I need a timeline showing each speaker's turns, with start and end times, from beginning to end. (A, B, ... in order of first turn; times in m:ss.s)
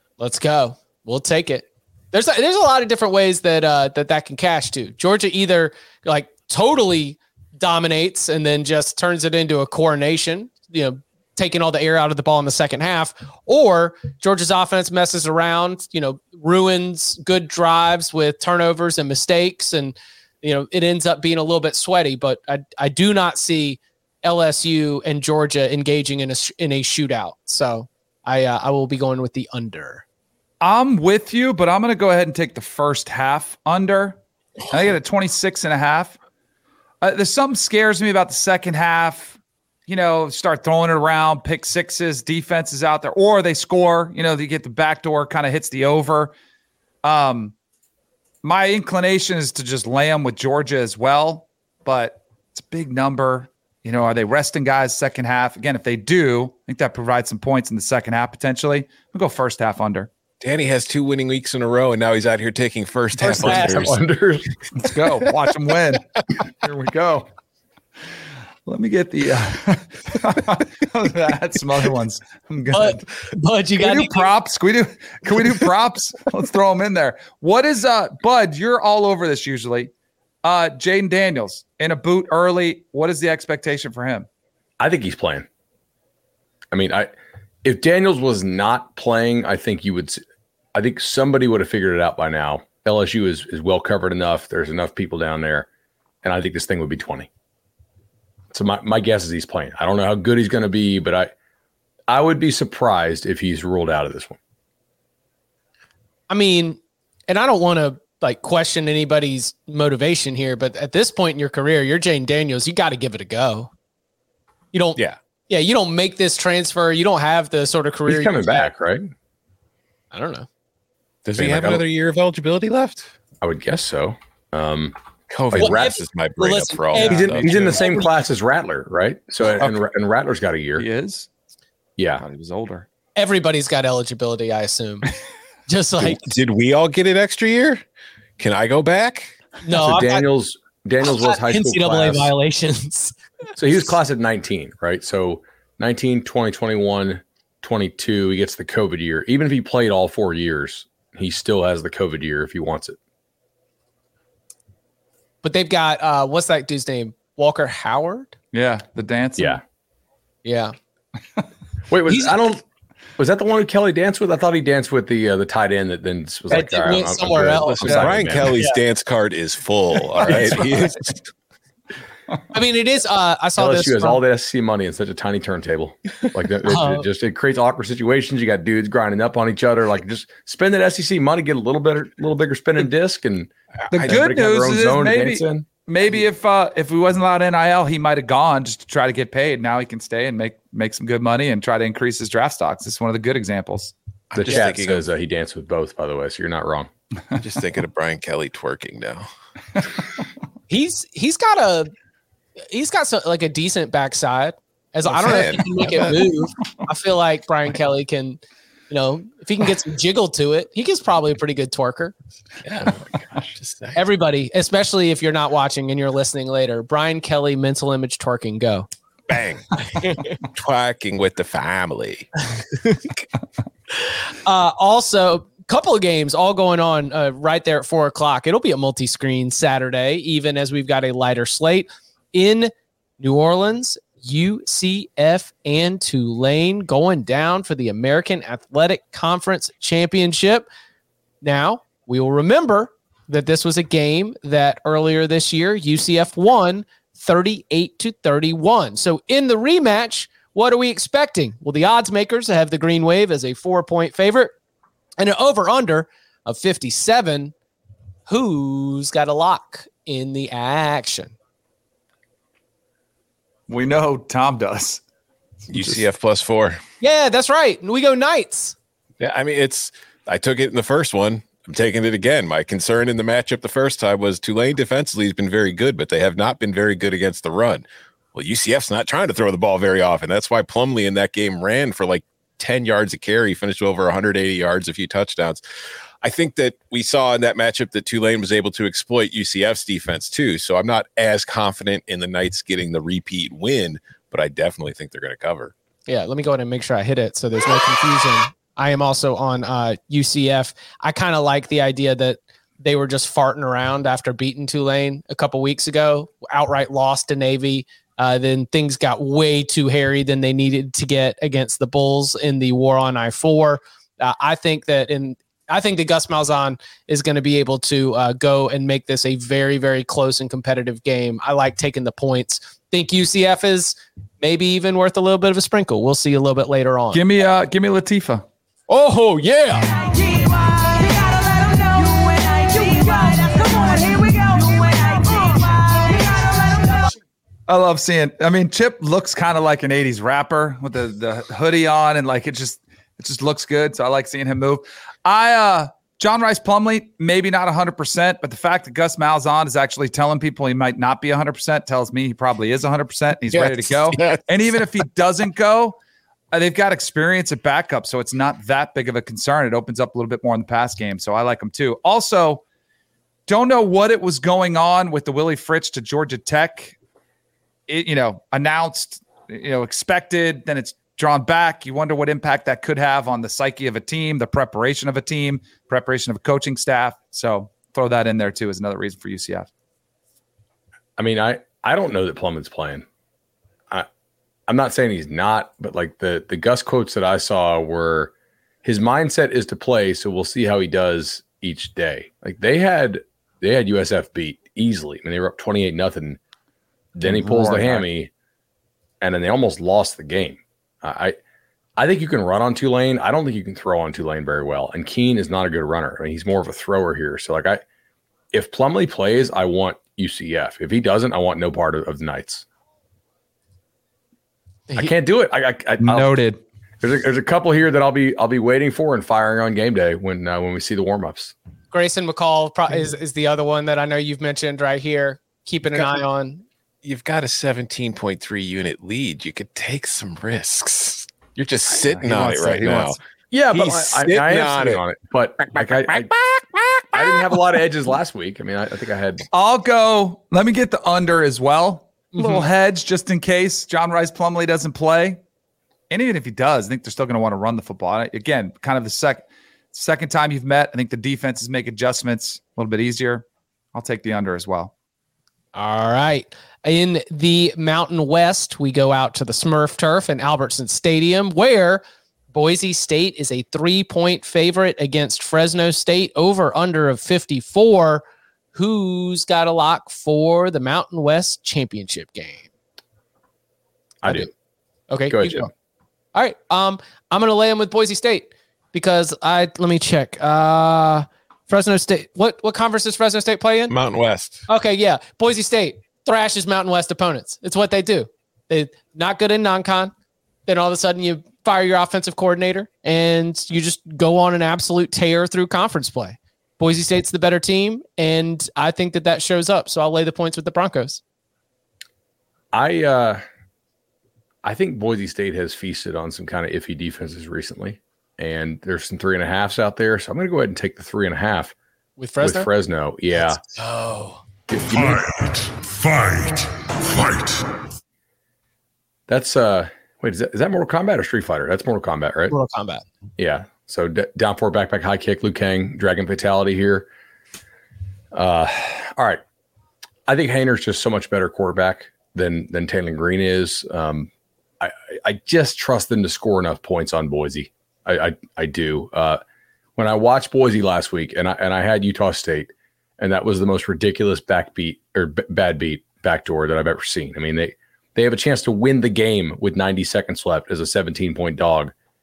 0:00.2-0:30.0 A
0:30.6-0:34.2 B
0:34.7-0:36.1 B
0:37.0-0:46.3 B
0:47.0-0:47.5 B
0:48.4-1:00.1 B
1:00.4-1:04.0 C
1:03.2-1:03.9 A
1:03.2-1:04.5 D
1:04.8-1:06.0 B
1:06.6-1:07.3 B
1:08.7-1:13.1 B
1:12.7-1:14.3 A
1:13.8-1:19.9 B
1:20.4-1:24.3 B
1:24.8-1:25.5 D
1:26.7-1:27.1 D
1:27.6-1:30.2 D
1:30.7-1:35.7 D
1:36.2-1:37.3 D
1:38.5-1:41.3 D
1:42.1-1:44.4 D
1:46.3-1:53.7 A
1:54.7-1:58.7 A
1:58.1-1:59.1 D
2:00.1-2:00.5 A
2:01.2-2:03.1 C
2:01.4-2:01.8 D
2:03.4-2:05.0 D
2:05.3-2:07.8 C
2:05.5-2:05.9 D
2:05.6-2:08.1 A
2:07.0-2:10.9 D
2:10.8-2:11.3 B
2:12.0-2:12.2 D
2:12.2-2:12.8 B
2:13.2-2:15.1 A
2:15.7-2:16.3 A
2:16.0-2:17.8 C
2:18.4-2:19.3 C
2:19.6-2:20.3 A
2:19.8-2:22.3 D
2:21.0-2:23.1 A
2:23.6-2:33.0 D
2:35.4-2:38.3 A
2:38.5-2:39.6 B
2:40.4-2:40.7 A
2:41.9-2:42.6 D
2:42.1-2:42.4 A
2:43.2-2:48.6 D
2:46.5-2:48.8 A
2:47.6-2:51.3 C
2:50.2-2:50.9 D
2:52.5-2:54.2 A
2:53.6-3:05.7 D
2:56.7-2:57.0 A
3:03.9-3:04.2 C
3:03.9-3:13.9 B
3:14.3-3:15.0 C
3:14.3-3:16.9 D
3:17.4-3:19.3 C
3:20.7-3:21.9 A
3:22.7-3:32.1 A
3:25.1-3:26.3 C
3:32.6-3:34.0 C
3:33.9-3:38.9 A
3:39.3-3:43.2 C
3:44.1-4:00.7 A
4:01.4-4:14.5 A
4:15.2-4:17.5 A
4:18.3-4:21.3 A
4:23.7-4:25.0 B
4:25.7-4:26.0 B
4:25.7-4:26.8 C
4:27.0-4:28.7 A
4:29.2-4:45.6 C
4:46.2-4:55.7 C
4:56.1-5:27.2 A
5:27.1-5:28.4 B
5:28.9-5:30.0 A
5:32.3-5:35.3 A
5:37.7-5:55.9 B
5:53.5-5:54.8 C
5:56.5-6:02.6 B
6:03.5-6:06.9 B
6:07.9-6:19.7 B
6:21.2-6:23.0 D
6:24.7-6:28.3 D
6:28.8-6:36.4 D
6:37.2-6:38.3 D
6:37.3-6:37.9 C
6:37.4-6:37.8 A
6:39.2-6:41.4 D
6:42.0-6:47.8 D
6:48.5-6:52.6 D
6:54.9-6:56.3 D
6:56.0-6:56.6 B
6:57.0-7:01.5 D
7:01.9-7:06.6 A
7:07.0-7:13.2 C
7:12.0-7:13.2 B
7:13.5-7:16.3 D
7:13.7-7:15.0 C
7:15.7-7:17.6 C
7:17.1-7:19.4 D
7:19.5-7:25.4 B
7:22.4-7:22.6 A
7:26.1-7:34.9 B
7:35.7-7:52.7 A
7:54.2-7:54.5 D
7:55.1-7:55.7 A
7:55.3-7:55.7 D
7:56.3-8:03.9 A
8:03.9-8:04.6 C
8:04.7-8:10.1 A
8:10.7-8:21.2 A
8:22.7-8:23.4 D
8:24.6-8:31.7 D
8:32.2-8:32.7 A
8:32.4-8:33.6 D
8:33.3-8:34.4 A
8:34.7-8:35.3 D
8:34.9-8:37.6 E
8:39.3-8:42.6 D
8:42.5-8:43.0 A
8:43.4-8:47.1 D
8:48.3-8:49.4 D
8:50.3-8:59.4 D
9:00.0-9:11.9 D